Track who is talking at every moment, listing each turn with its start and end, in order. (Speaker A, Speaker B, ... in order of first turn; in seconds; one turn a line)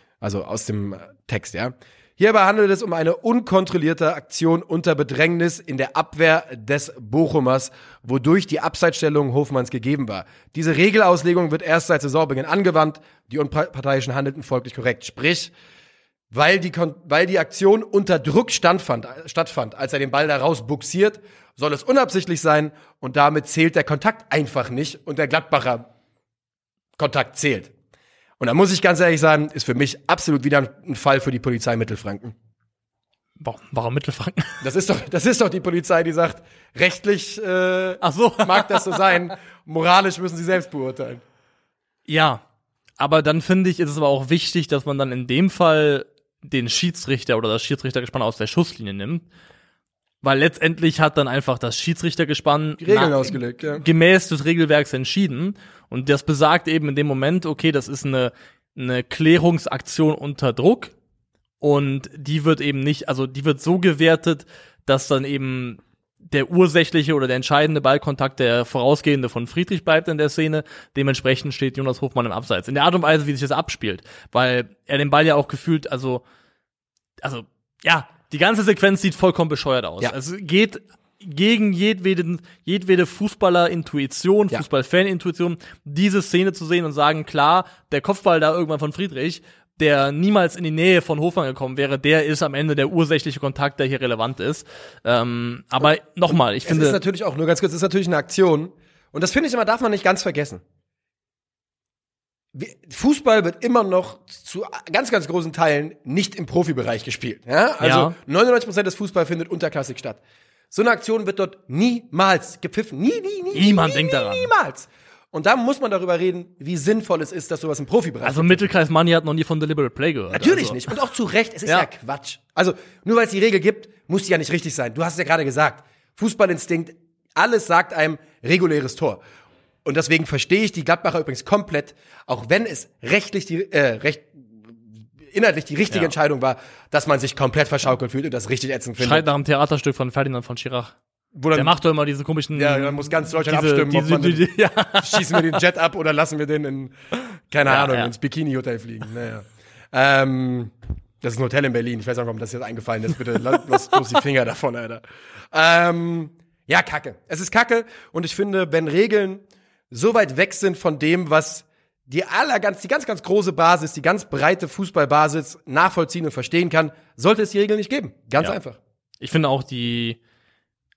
Speaker A: 0.2-15.5
Speaker A: 16.3-25.9
Speaker A: 27.0-27.7
Speaker A: 28.4-32.3
Speaker B: 33.4-34.6
Speaker A: 34.6-41.2
Speaker B: 38.0-39.0
Speaker B: 42.1-42.4
Speaker B: 43.0-49.2
Speaker B: 50.2-60.9
Speaker A: 52.8-53.8
Speaker B: 61.6-76.2
Speaker B: 77.2-97.0
Speaker A: 96.3-100.6
Speaker A: 102.5-110.2
Speaker B: 107.8-108.2
Speaker A: 110.7-118.7
Speaker B: 113.5-114.5
Speaker B: 118.2-121.0
Speaker A: 120.3-129.2
Speaker A: 129.8-134.7
Speaker A: 135.2-139.3
Speaker B: 139.0-140.9
Speaker A: 141.3-141.7
Speaker B: 141.5-145.6
Speaker A: 142.6-168.8
Speaker B: 147.7-148.1
Speaker B: 169.2-170.2